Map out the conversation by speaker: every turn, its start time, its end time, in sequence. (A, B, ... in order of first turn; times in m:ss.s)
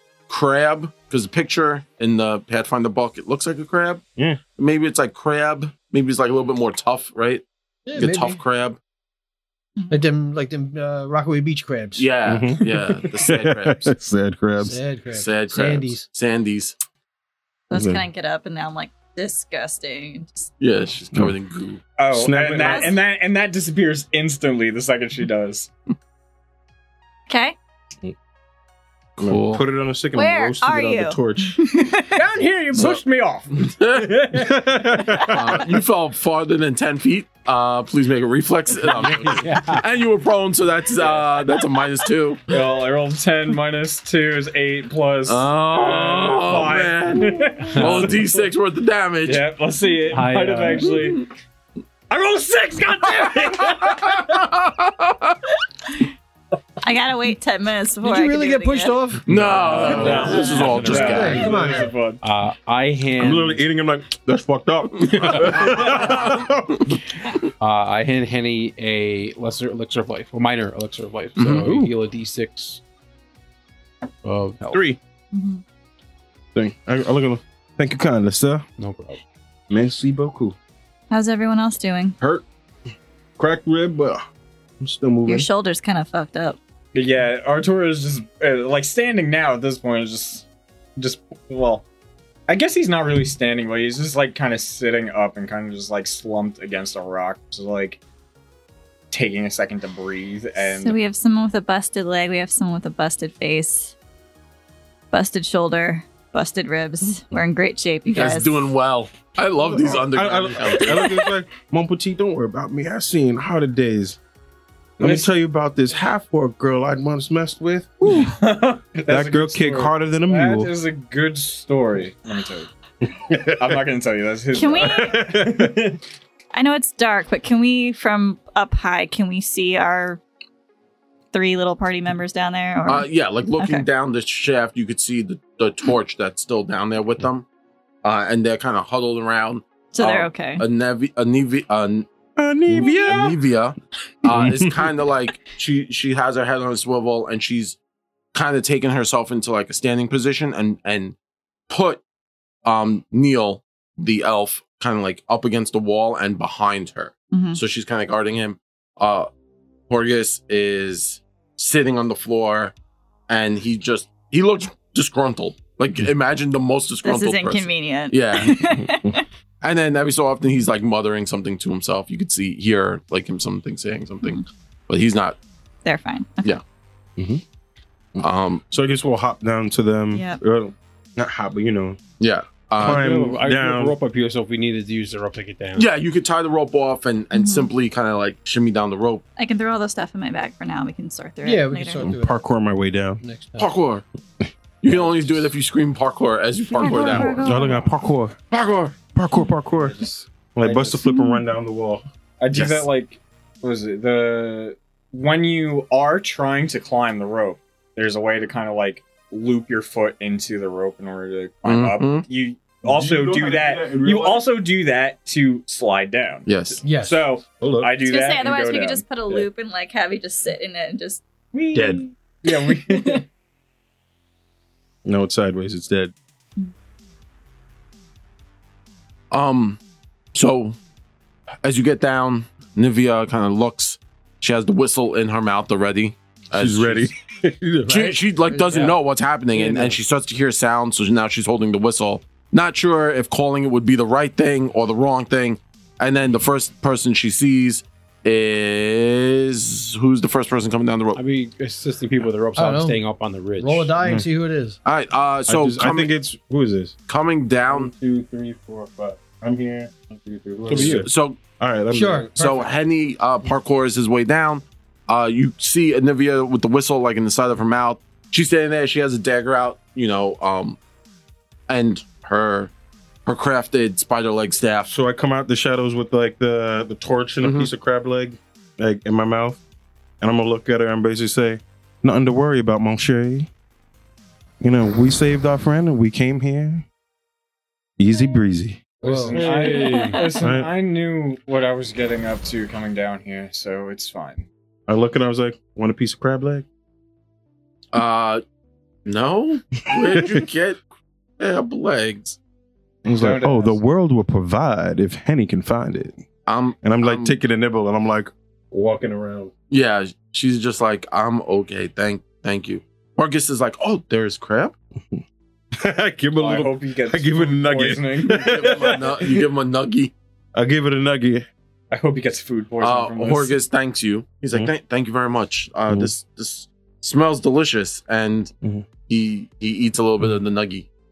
0:00.3-0:04.0 A
0:04.6-0:07.4 A
0:07.9-0:08.4 B
0:08.0-0:08.8 A
0:09.8-0:10.0 C
0:09.9-0:12.0 B
0:12.0-0:13.9 A
0:12.3-0:14.8 D
0:14.6-0:16.1 B
0:15.2-0:16.8 A
0:17.7-0:20.5 C
0:17.7-0:18.0 D
0:20.6-0:21.8 A
0:22.0-0:25.7 E
0:22.1-0:22.9 D
0:22.6-0:23.0 C
0:27.3-0:27.6 C
0:29.2-0:29.6 A
0:29.2-0:31.6 D
0:30.1-0:32.2 C
0:32.1-0:35.3 E
0:32.7-0:33.0 A
0:33.6-0:34.1 A
0:34.4-0:35.6 D
0:35.2-0:42.4 A
0:39.3-0:39.8 F
0:41.0-0:41.7 E
0:42.5-0:48.4 E
0:45.3-0:49.5 A
0:47.7-0:48.1 F
0:49.2-0:51.3 E
0:50.1-0:51.0 F
0:52.1-0:54.4 E
0:53.8-0:55.4 A
0:56.8-0:59.2 C
0:58.0-0:59.3 B
0:59.3-1:01.5 A
0:59.3-1:01.7 F
0:59.8-1:00.3 D
0:59.9-1:02.2 E
1:00.0-1:01.9 B
1:02.2-1:03.6 F
1:03.2-1:06.8 D
1:05.7-1:06.3 A
1:07.6-1:12.8 F
1:11.4-1:11.7 A
1:11.6-1:11.9 D
1:14.2-1:14.8 F
1:14.7-1:15.0 D
1:15.3-1:15.6 C
1:16.6-1:18.6 D
1:18.8-1:19.2 F
1:19.7-1:20.6 D
1:21.1-1:22.2 C
1:23.4-1:24.2 D
1:24.8-1:25.5 D
1:25.3-1:26.6 C
1:26.9-1:31.8 E
1:32.5-1:38.0 E
1:39.1-1:41.0 E
1:40.6-1:43.9 C
1:45.1-1:48.6 C
1:48.1-1:51.2 A
1:49.6-1:54.2 D
1:55.0-1:58.4 D
1:55.0-1:55.3 E
1:58.1-2:02.7 E
1:59.1-2:00.7 D
2:03.3-2:03.7 D
2:03.5-2:05.8 E
2:04.5-2:05.3 C
2:04.8-2:05.9 D
2:06.5-2:10.2 C
2:11.3-2:13.8 C
2:12.9-2:17.5 A
2:18.0-2:22.1 A
2:19.9-2:20.6 C
2:22.4-2:23.4 D
2:22.7-2:27.8 A
2:24.3-2:25.0 D
2:28.3-2:31.2 A
2:31.7-2:32.0 A
2:32.6-2:39.3 A
2:37.3-2:37.6 C
2:39.9-2:42.7 A
2:43.3-2:48.8 A
2:47.0-2:49.2 C
2:48.6-2:49.2 D
2:49.6-2:55.4 A
2:55.8-2:56.5 C
2:57.2-2:57.4 D
2:58.2-3:02.0 D
2:58.2-2:58.6 A
3:00.1-3:00.4 C
3:02.2-3:03.2 A
3:02.8-3:05.9 F
3:02.8-3:04.0 D
3:05.8-3:09.2 A
3:07.3-3:07.7 C
3:09.4-3:12.1 C
3:11.4-3:12.4 B
3:12.0-3:13.2 D
3:13.2-3:13.7 B
3:13.6-3:14.1 A
3:14.8-3:17.6 A
3:14.9-3:15.5 D
3:16.8-3:17.9 C
3:16.9-3:18.4 D
3:18.5-3:19.0 A
3:19.2-3:22.0 D
3:20.6-3:21.0 E
3:21.1-3:21.4 C
3:22.4-3:39.5 E
3:22.5-3:22.9 A
3:31.6-3:32.2 A
3:32.8-3:34.6 D
3:36.5-3:36.8 A
3:36.8-3:37.3 B
3:37.6-3:37.9 D
3:38.0-3:43.2 C
3:41.5-3:43.2 E
3:41.8-3:42.0 D
3:45.0-3:46.1 D
3:49.3-3:49.8 A
3:50.3-3:50.8 A
3:51.6-3:57.1 A
3:56.5-3:58.2 D
3:57.9-4:11.2 A
3:58.4-3:58.9 B
4:11.1-4:13.9 F
4:12.6-4:13.0 B
4:13.6-4:14.8 B
4:14.0-4:14.3 D
4:14.8-4:16.1 A
4:15.5-4:17.0 D
4:17.1-4:17.9 A
4:17.7-4:22.3 D
4:20.7-4:21.1 F
4:20.7-4:21.4 A
4:21.9-4:22.7 B
4:22.4-4:30.8 A
4:31.7-4:32.7 A
4:33.3-4:34.9 A
4:34.9-4:39.6 D
4:37.4-4:37.7 A
4:40.2-4:43.5 D
4:44.6-4:46.8 D
4:48.0-4:50.7 D
4:49.0-4:49.4 B
4:49.0-4:54.5 E
4:49.4-4:50.2 F
4:49.9-4:50.4 C
4:54.9-4:56.7 D
4:57.9-4:58.4 A
4:59.1-5:00.8 A
5:00.0-5:00.4 D
5:01.4-5:02.4 A
5:03.1-5:06.2 D
5:03.1-5:03.8 E
5:06.5-5:07.4 A
5:06.8-5:09.5 D
5:09.7-5:14.8 A
5:15.8-5:19.4 D
5:16.4-5:19.0 E
5:18.3-5:20.1 A
5:20.6-5:21.5 D
5:21.9-5:23.6 E
5:22.8-5:28.5 A
5:29.1-5:30.9 A